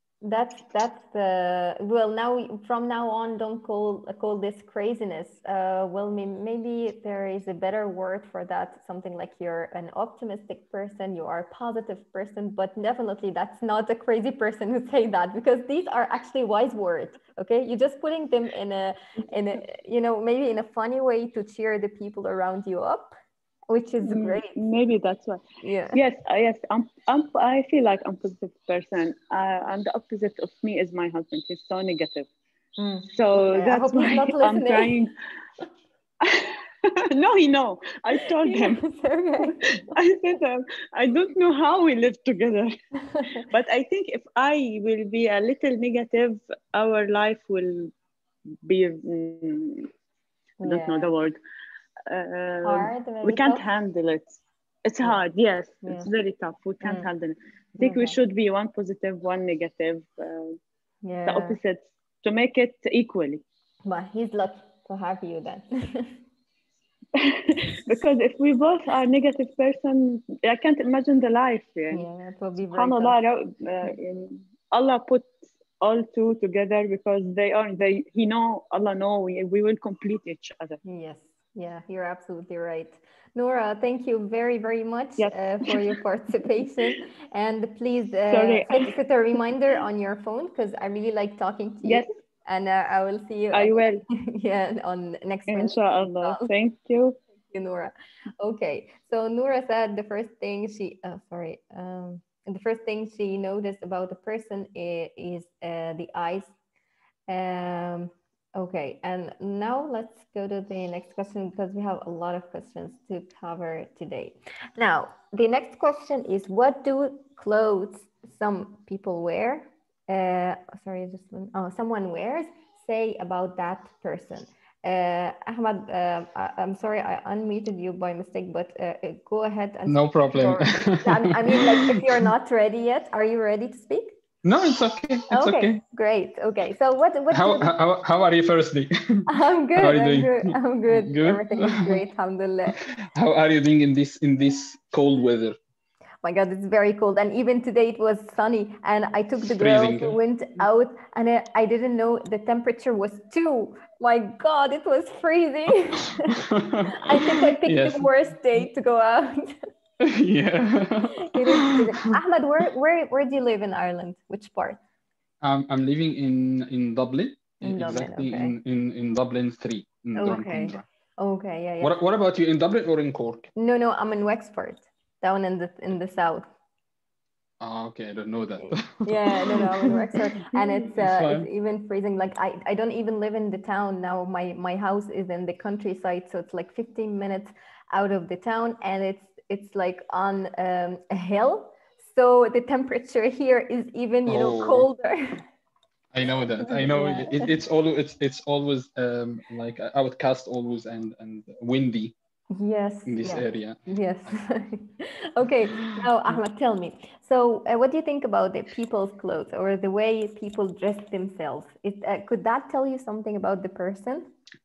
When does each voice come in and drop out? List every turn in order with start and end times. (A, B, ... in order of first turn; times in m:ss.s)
0:00.2-0:23.2 A
0:23.7-0:24.6 A
0:24.0-0:32.3 B
0:25.6-0:26.0 A
0:32.8-0:34.9 A
0:33.1-0:35.1 B
0:36.2-0:38.8 B
0:38.2-0:39.9 A
0:39.4-0:42.7 B
0:43.3-0:47.9 B
0:48.6-0:49.9 B
0:50.6-0:51.1 A
0:50.6-0:51.4 B
0:52.1-1:00.6 B
0:52.6-0:53.6 A
0:56.8-0:57.1 A
0:57.8-0:58.1 A
1:01.0-1:01.6 A
1:01.2-1:03.4 B
1:03.8-1:06.2 A
1:07.2-1:12.0 B
1:11.9-1:13.2 A
1:12.7-1:20.8 B
1:20.8-1:36.5 A
1:25.2-1:26.0 B
1:28.3-1:29.0 B
1:31.8-1:32.1 B
1:33.5-1:34.0 B
1:35.5-1:37.2 B
1:37.5-1:46.5 A
1:47.3-2:14.2 A
2:09.9-2:12.2 C
2:14.4-2:15.8 C
2:15.3-2:17.7 A
2:17.3-2:22.0 C
2:19.3-2:22.8 A
2:22.7-2:25.6 C
2:26.2-2:36.4 A
2:29.4-2:30.2 C
2:36.3-2:38.1 C
2:37.0-2:39.5 A
2:40.0-2:42.1 C
2:41.2-2:44.8 A
2:45.4-2:50.8 C
2:47.6-2:48.5 A
2:50.2-2:51.9 A
2:51.8-2:53.5 C
2:53.6-2:56.5 A
2:57.6-3:00.0 C
2:58.6-3:15.4 A
3:00.5-3:01.5 C
3:14.2-3:14.9 C
3:16.1-3:22.1 C
3:16.6-3:17.6 A
3:22.5-3:34.3 A
3:23.1-3:23.8 C
3:25.7-3:26.0 C